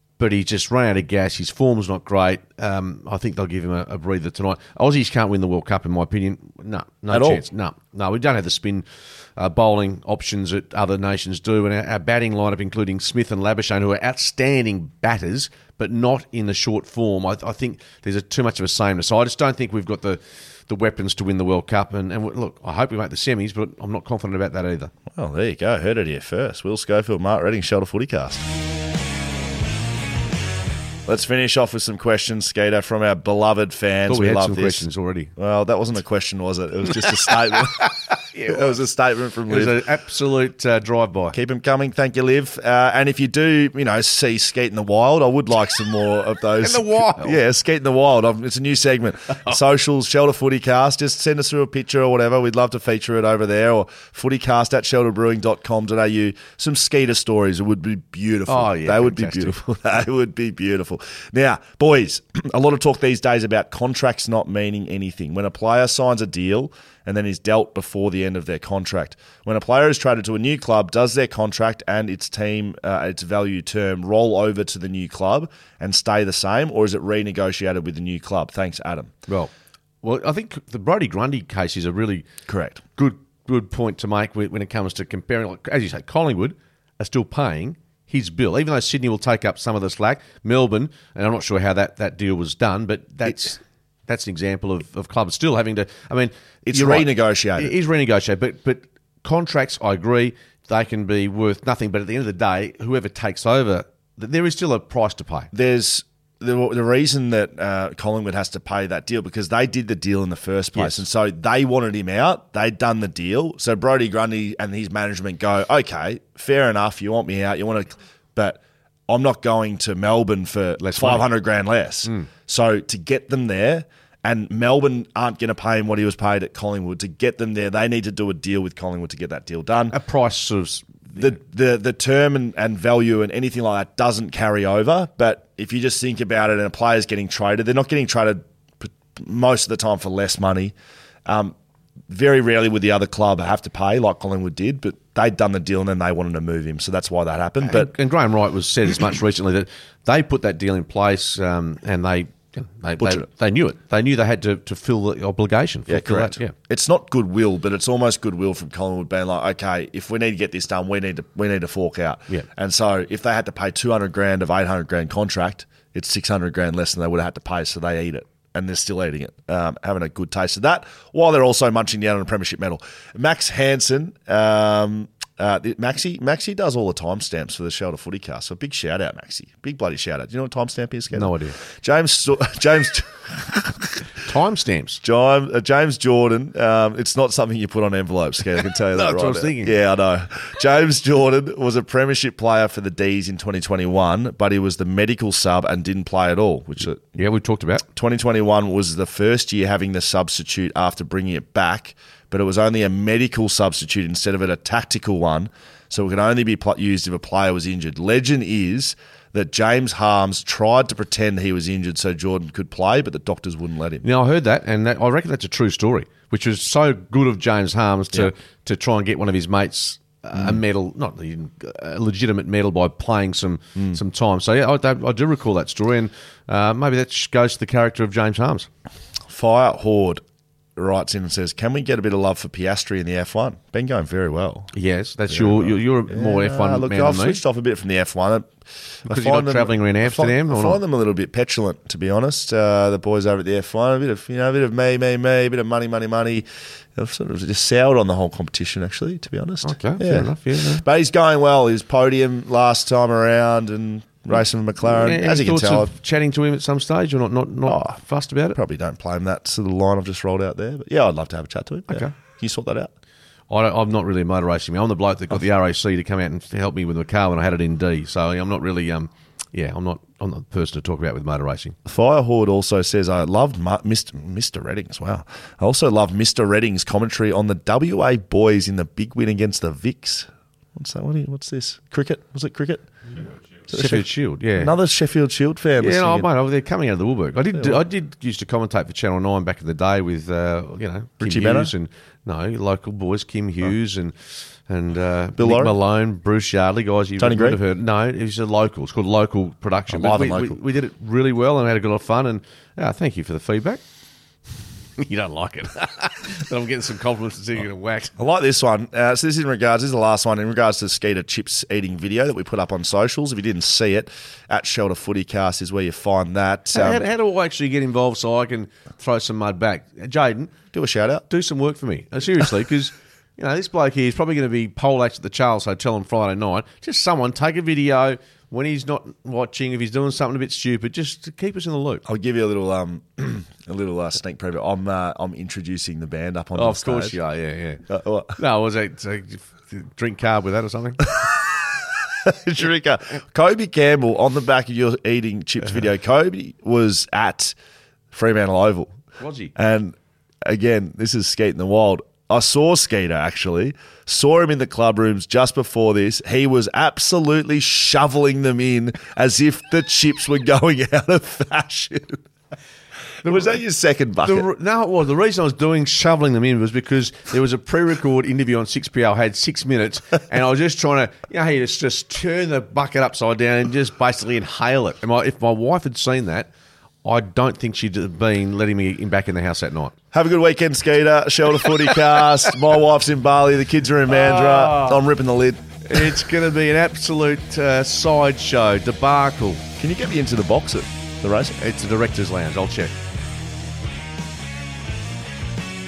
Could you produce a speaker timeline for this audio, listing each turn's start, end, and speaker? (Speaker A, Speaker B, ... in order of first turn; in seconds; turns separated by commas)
Speaker A: 0.2-24.9, Speaker B: 7.1-7.4, Speaker B: 25.1-28.4, Speaker B: 31.1-39.8, Speaker A: 34.1-35.3, Speaker A: 36.9-38.8, Speaker A: 39.5-41.3, Speaker B: 41.3-79.1, Speaker A: 46.6-47.4, Speaker A: 58.5-59.5, Speaker A: 80.0-82.2, Speaker B: 82.5-82.8, Speaker A: 83.0-105.5, Speaker B: 96.7-97.7, Speaker B: 105.5-129.9, Speaker A: 110.7-111.0, Speaker A: 120.8-121.3, Speaker A: 129.9-131.3, Speaker B: 131.1-140.7, Speaker B: 141.2-141.5, Speaker B: 142.1-147.9, Speaker A: 147.6-156.5, Speaker B: 155.9-184.1, Speaker A: 181.1-181.6, Speaker A: 184.2-185.0, Speaker B: 185.0-197.2, Speaker A: 188.9-189.7, Speaker A: 197.1-197.8, Speaker B: 197.9-214.1, Speaker A: 214.0-228.7, Speaker B: 229.3-230.2, Speaker B: 230.8-234.7, Speaker A: 234.7-237.4, Speaker B: 235.3-255.9, Speaker A: 239.1-240.8, Speaker A: 249.6-250.8, Speaker A: 254.8-258.6, Speaker B: 257.6-258.0, Speaker B: 258.5-262.9, Speaker A: 263.5-271.8, Speaker B: 271.9-282.9, Speaker B: 283.7-286.3, Speaker A: 283.7-284.7, Speaker A: 285.8-303.8, Speaker B: 287.5-287.8, Speaker B: 291.2-291.7, Speaker B: 295.4-295.7, Speaker B: 297.2-297.6, Speaker B: 299.9-300.6, Speaker A: 305.0-308.1, Speaker B: 308.1-317.0, Speaker A: 316.7-320.5, Speaker B: 320.7-321.2, Speaker A: 321.3-332.0, Speaker B: 332.0-337.2, Speaker A: 336.5-337.8, Speaker B: 337.9-338.4, Speaker A: 338.3-341.0, Speaker B: 341.1-347.6, Speaker B: 348.1-349.0, Speaker A: 349.2-349.5, Speaker B: 349.6-362.2, Speaker B: 363.2-364.5, Speaker A: 363.2-363.6, Speaker A: 364.2-376.5, Speaker A: 377.0-379.9, Speaker B: 380.1-386.2, Speaker A: 384.1-385.1, Speaker A: 385.9-389.6, Speaker B: 389.8-391.6, Speaker A: 391.6-392.9